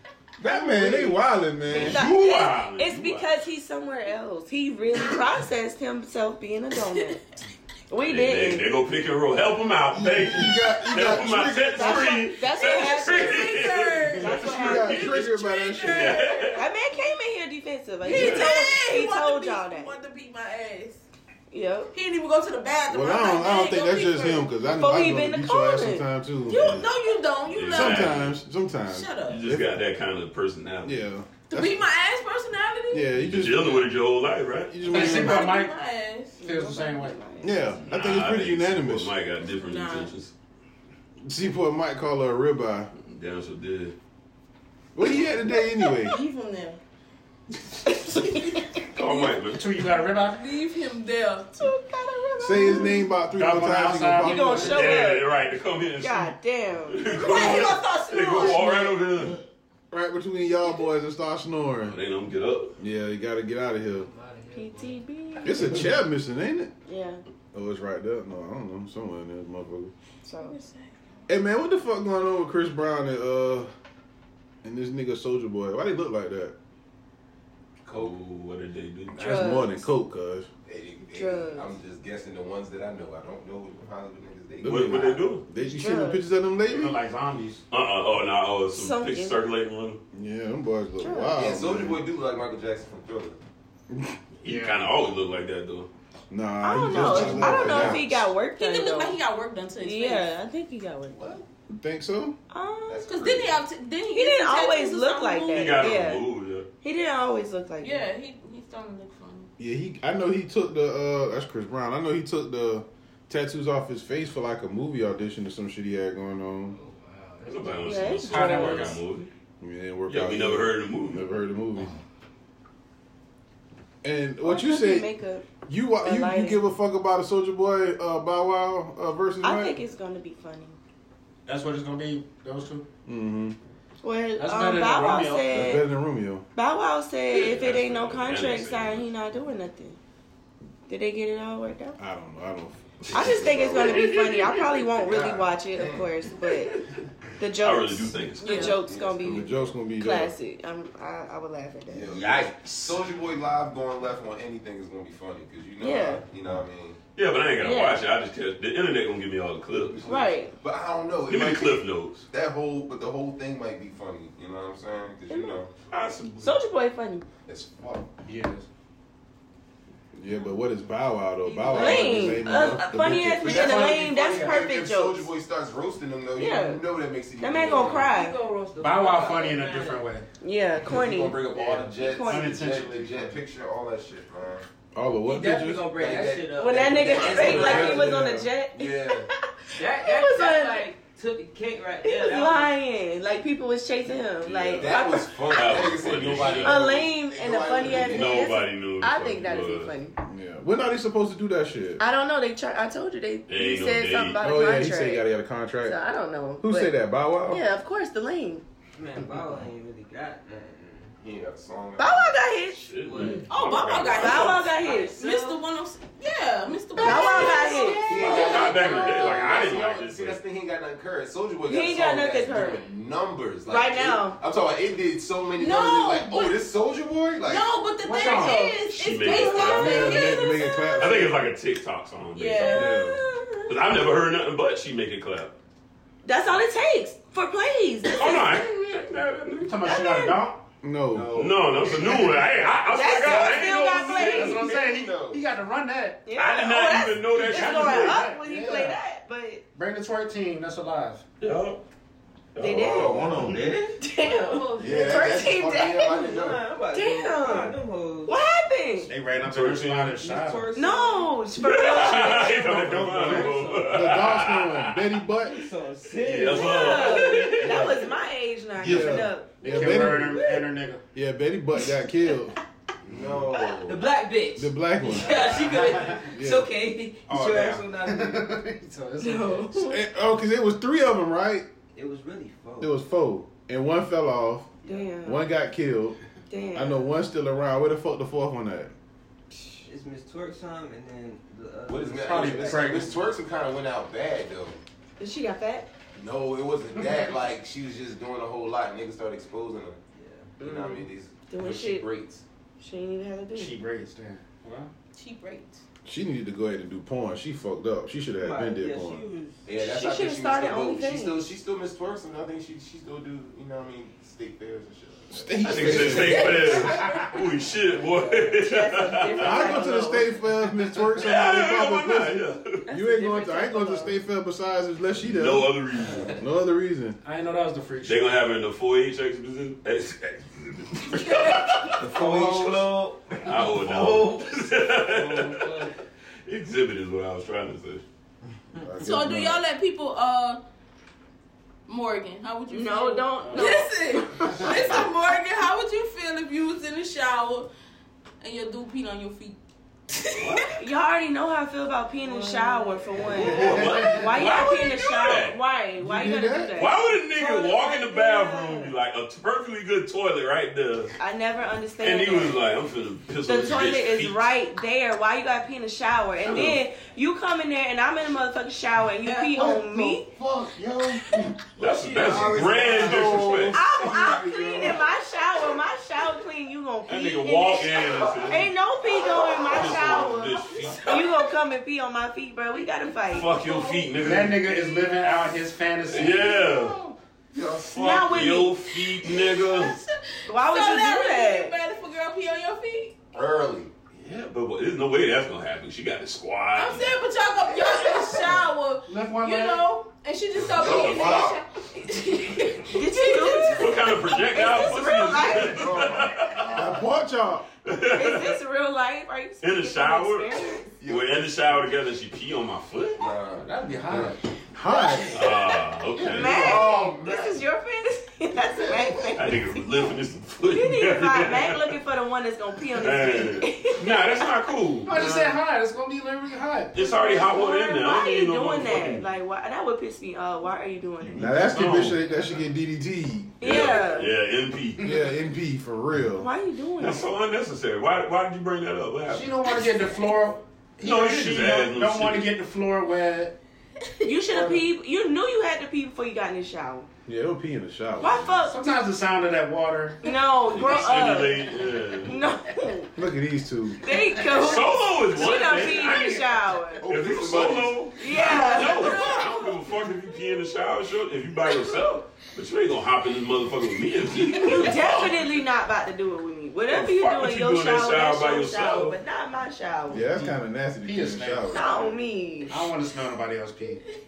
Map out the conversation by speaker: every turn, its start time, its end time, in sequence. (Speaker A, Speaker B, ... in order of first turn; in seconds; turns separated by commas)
Speaker A: 0.4-2.1, Speaker B: 1.7-3.3, Speaker C: 1.7-7.2, Speaker C: 7.9-8.7, Speaker B: 8.0-15.3, Speaker A: 9.9-12.2, Speaker C: 11.8-15.1, Speaker D: 12.4-17.0, Speaker A: 14.4-16.3, Speaker B: 15.8-16.6, Speaker C: 16.5-19.9, Speaker D: 18.0-21.0, Speaker B: 18.1-18.5, Speaker C: 21.5-21.9, Speaker D: 21.9-24.5, Speaker A: 22.9-26.9, Speaker C: 24.7-26.1, Speaker D: 26.4-28.3, Speaker B: 27.5-28.4, Speaker A: 27.7-29.8, Speaker D: 28.9-29.4, Speaker B: 29.3-31.0, Speaker A: 30.9-31.8, Speaker D: 31.5-33.1, Speaker A: 32.9-33.9, Speaker B: 33.1-34.9, Speaker A: 34.7-35.5, Speaker E: 34.9-35.7, Speaker D: 35.0-36.4, Speaker C: 36.4-37.8, Speaker E: 36.4-37.2, Speaker A: 37.4-39.1, Speaker B: 37.8-40.3, Speaker D: 39.4-40.1, Speaker A: 41.2-42.9, Speaker B: 43.0-44.0, Speaker A: 45.0-46.2, Speaker D: 46.0-46.8, Speaker C: 47.9-48.6, Speaker B: 48.9-49.6, Speaker E: 49.5-50.5, Speaker D: 50.2-51.7, Speaker C: 51.6-53.0, Speaker A: 52.4-54.8, Speaker E: 53.3-55.1, Speaker C: 54.2-55.3, Speaker B: 54.6-59.4, Speaker C: 56.0-59.0, Speaker D: 57.2-58.4, Speaker A: 59.9-62.0, Speaker B: 61.9-62.8, Speaker A: 62.8-64.1, Speaker F: 64.0-65.0, Speaker C: 64.5-65.8, Speaker A: 65.4-66.7, Speaker C: 66.9-67.2, Speaker A: 67.5-69.9, Speaker C: 70.2-70.6, Speaker D: 70.4-71.0, Speaker A: 71.3-73.7, Speaker A: 74.6-76.5, Speaker G: 77.8-78.1, Speaker B: 77.9-79.5, Speaker C: 79.2-79.8, Speaker A: 79.2-80.5, Speaker G: 80.7-85.0, Speaker C: 81.1-81.7, Speaker A: 84.6-87.0, Speaker B: 84.6-85.4, Speaker C: 85.6-86.2, Speaker E: 86.7-87.6, Speaker B: 87.7-90.0, Speaker C: 88.7-89.4, Speaker A: 90.1-92.0, Speaker C: 91.0-91.4, Speaker G: 91.3-93.4, Speaker A: 93.9-94.2, Speaker B: 94.4-95.9, Speaker E: 94.4-94.8, Speaker A: 96.3-98.3, Speaker C: 96.6-99.2, Speaker D: 98.5-100.3, Speaker C: 99.8-101.2, Speaker G: 101.1-101.5, Speaker A: 101.7-102.4, Speaker C: 102.5-103.1, Speaker G: 102.9-103.6, Speaker D: 103.1-106.0, Speaker C: 104.1-106.2, Speaker B: 105.5-106.7, Speaker C: 106.8-108.0, Speaker D: 107.8-109.5, Speaker A: 109.6-116.8, Speaker F: 116.7-117.9, Speaker B: 117.5-119.3, Speaker C: 117.8-118.9, Speaker E: 118.2-119.0, Speaker A: 119.6-121.9, Speaker B: 120.1-121.2, Speaker A: 124.0-125.1, Speaker C: 124.4-125.5, Speaker A: 125.7-129.8, Speaker C: 126.0-126.6, Speaker C: 129.4-130.8, Speaker E: 131.5-132.9, Speaker A: 133.1-133.6, Speaker C: 134.0-135.8, Speaker E: 134.4-135.7, Speaker A: 135.5-136.5, Speaker C: 136.6-140.0, Speaker B: 137.3-139.1, Speaker C: 140.9-142.0, Speaker A: 142.0-143.6, Speaker B: 143.0-144.9, Speaker C: 143.1-146.8, Speaker G: 143.2-144.0, Speaker G: 145.1-146.1, Speaker B: 146.4-146.8, Speaker C: 147.4-152.1, Speaker B: 147.6-148.8, Speaker D: 148.4-148.8, Speaker G: 148.7-149.7, Speaker A: 149.2-150.3, Speaker G: 151.9-157.0, Speaker H: 152.1-153.1, Speaker C: 155.8-156.2, Speaker B: 157.1-160.0, Speaker C: 157.6-158.0, Speaker G: 159.8-165.7, Speaker C: 160.1-160.5, Speaker B: 161.3-162.2, Speaker C: 165.3-165.6, Speaker B: 165.9-166.5, Speaker C: 166.4-167.2, Speaker G: 167.5-168.1, Speaker E: 168.2-168.7, Speaker A: 170.1-173.6, Speaker F: 171.4-172.8, Speaker C: 171.7-175.3, Speaker E: 173.4-174.6, Speaker G: 173.4-178.1, Speaker C: 176.3-176.8, Speaker C: 177.4-178.4, Speaker F: 177.6-180.1, Speaker E: 178.8-180.3, Speaker C: 180.4-181.4, Speaker G: 180.8-184.6, Speaker E: 181.5-183.4, Speaker C: 181.9-182.6, Speaker A: 184.9-186.0, Speaker F: 185.2-188.2, Speaker G: 185.9-188.0, Speaker C: 186.5-190.9, Speaker B: 187.2-187.6, Speaker A: 187.4-188.5, Speaker G: 188.7-189.3, Speaker F: 189.8-192.7, Speaker C: 192.0-195.6, Speaker B: 194.5-194.9, Speaker G: 194.7-198.6, Speaker B: 195.5-196.8, Speaker C: 196.5-200.1, Speaker B: 197.8-199.9, Speaker A: 200.2-202.0, Speaker C: 202.0-205.3, Speaker B: 203.5-204.4, Speaker A: 204.4-206.0, Speaker C: 205.8-207.0, Speaker A: 206.6-207.6, Speaker C: 207.5-208.6, Speaker F: 209.0-211.1, Speaker G: 211.2-212.4, Speaker C: 212.0-213.4, Speaker B: 212.8-214.7, Speaker F: 213.0-213.8, Speaker D: 213.5-219.7, Speaker C: 214.1-215.5, Speaker F: 214.8-215.6, Speaker C: 217.0-218.1, Speaker G: 218.0-227.7, Speaker B: 218.1-220.4, Speaker F: 218.7-219.0, Speaker C: 221.7-222.8, Speaker C: 223.7-224.4, Speaker D: 225.6-226.6, Speaker D: 227.4-231.1, Speaker E: 228.0-228.8, Speaker B: 228.9-230.4, Speaker A: 229.6-231.4, Speaker B: 231.0-232.9, Speaker D: 232.3-233.2, Speaker A: 232.7-233.2, Speaker C: 232.8-233.7, Speaker B: 233.7-235.6, Speaker C: 236.2-238.6, Speaker B: 238.1-240.2, Speaker E: 239.6-240.6, Speaker C: 239.9-240.4, Speaker A: 240.8-241.4, Speaker G: 241.1-242.7, Speaker B: 241.3-244.6, Speaker E: 242.1-246.2, Speaker C: 242.9-244.7, Speaker G: 244.4-245.4, Speaker C: 246.3-249.6, Speaker B: 246.3-248.2, Speaker E: 247.3-249.0, Speaker E: 249.8-251.2, Speaker B: 251.4-251.8, Speaker C: 252.6-253.3, Speaker H: 252.6-254.0, Speaker G: 252.6-253.5, Speaker C: 254.0-259.1, Speaker D: 254.2-255.4, Speaker G: 254.8-256.7, Speaker F: 256.2-258.4, Speaker E: 259.1-260.7, Speaker B: 259.4-260.3, Speaker F: 260.2-261.4, Speaker C: 260.8-262.7, Speaker B: 261.6-264.9, Speaker E: 262.2-263.8, Speaker F: 262.3-264.1, Speaker A: 263.9-265.6, Speaker F: 265.4-268.1, Speaker B: 266.2-268.0, Speaker C: 266.5-270.5, Speaker A: 268.8-270.4, Speaker E: 269.6-271.0, Speaker A: 271.1-272.6, Speaker G: 273.1-274.1, Speaker F: 273.7-278.5, Speaker A: 274.6-275.4, Speaker E: 275.3-276.2, Speaker A: 276.3-276.7, Speaker E: 277.6-279.8, Speaker C: 279.2-280.0, Speaker A: 279.8-281.7, Speaker F: 281.9-282.9, Speaker A: 282.8-284.7, Speaker F: 284.9-285.1, Speaker C: 284.9-285.5, Speaker A: 285.2-286.2, Speaker C: 286.5-287.1, Speaker A: 286.7-288.9, Speaker F: 289.9-293.2, Speaker G: 291.9-294.8, Speaker E: 292.2-293.2, Speaker C: 295.2-295.9, Speaker G: 296.1-300.0, Speaker F: 300.1-300.6, Speaker C: 300.6-302.1, Speaker G: 300.6-302.4, Speaker C: 302.8-303.8, Speaker E: 303.6-304.9, Speaker D: 305.1-305.8, Speaker A: 306.1-309.2, Speaker F: 308.4-309.7, Speaker G: 309.6-316.5, Speaker C: 309.8-311.5, Speaker A: 315.3-316.9, Speaker B: 315.6-319.8, Speaker D: 316.4-317.4, Speaker C: 318.6-320.3, Speaker A: 319.4-325.8, Speaker B: 321.2-322.8, Speaker C: 322.9-324.2, Speaker B: 325.2-326.4, Speaker A: 326.4-327.2, Speaker E: 327.2-328.3, Speaker B: 328.0-332.0, Speaker D: 331.1-331.7, Speaker H: 332.0-334.5, Speaker F: 332.1-332.9, Speaker B: 333.4-335.7, Speaker F: 335.1-335.9, Speaker B: 336.5-338.0, Speaker A: 338.8-339.6, Speaker D: 339.0-340.6, Speaker D: 341.9-347.7, Speaker C: 342.7-345.0, Speaker E: 343.4-343.8, Speaker E: 344.5-344.9, Speaker D: 348.4-349.6, Speaker D: 350.1-350.7, Speaker B: 350.3-350.7, Speaker C: 350.8-358.9, Speaker D: 352.3-353.0, Speaker B: 353.3-355.6, Speaker E: 353.4-354.1, Speaker F: 353.4-354.1, Speaker A: 356.0-356.8, Speaker B: 356.8-361.1, Speaker C: 361.2-362.6, Speaker B: 362.0-364.5, Speaker C: 363.5-370.3, Speaker B: 366.4-366.8, Speaker D: 369.2-370.2, Speaker G: 370.3-371.5, Speaker B: 371.8-373.8, Speaker F: 372.2-373.7, Speaker G: 372.2-375.1, Speaker C: 373.7-383.5, Speaker B: 377.1-378.7, Speaker B: 379.7-381.3, Speaker D: 380.7-381.5, Speaker D: 383.1-385.5, Speaker B: 383.3-384.7, Speaker E: 384.2-386.6, Speaker B: 386.1-387.0, Speaker G: 386.5-388.6, Speaker C: 387.9-388.8, Speaker B: 388.0-390.0, Speaker D: 389.0-393.2, Speaker C: 390.5-391.7, Speaker G: 393.3-393.9, Speaker B: 394.2-397.1, Speaker D: 396.8-404.0, Speaker E: 399.1-399.9, Speaker G: 400.7-401.6, Speaker C: 402.9-406.1, Speaker G: 403.4-404.4, Speaker B: 403.7-406.7, Speaker G: 405.3-407.1, Speaker A: 406.7-407.7, Speaker B: 407.9-408.6, Speaker C: 408.1-410.9, Speaker B: 409.6-413.3, Speaker G: 411.0-411.5, Speaker G: 413.2-414.4, Speaker E: 413.6-414.4, Speaker A: 414.7-415.4, Speaker C: 414.9-419.8, Speaker B: 415.4-416.8, Speaker A: 416.2-416.9, Speaker G: 416.4-417.5, Speaker G: 418.7-419.3, Speaker B: 419.4-421.9, Speaker C: 420.7-424.5, Speaker B: 423.0-425.5, Speaker E: 425.0-427.0, Speaker B: 426.9-429.2, Speaker C: 427.0-431.5, Speaker B: 431.2-432.2, Speaker A: 431.4-433.9, Speaker C: 433.6-434.3, Speaker B: 433.6-435.0, Speaker A: 435.0-436.5, Speaker C: 436.4-437.3, Speaker B: 437.0-440.2, Speaker E: 439.3-443.6, Speaker B: 441.0-442.5, Speaker C: 444.2-447.1, Speaker E: 444.5-444.8, Speaker A: 447.3-448.6, Speaker C: 448.2-448.8, Speaker E: 448.7-450.2, Speaker C: 450.2-451.7, Speaker B: 450.7-452.4, Speaker C: 452.2-453.1, Speaker A: 453.2-454.0, Speaker C: 454.0-457.1, Speaker B: 454.4-465.5, Speaker G: 457.0-458.1, Speaker C: 458.2-459.2, Speaker D: 458.5-459.8, Speaker C: 464.5-470.4, Speaker B: 466.9-469.2, Speaker A: 470.1-472.0, Speaker E: 470.3-472.2, Speaker C: 471.7-472.9, Speaker E: 472.7-474.0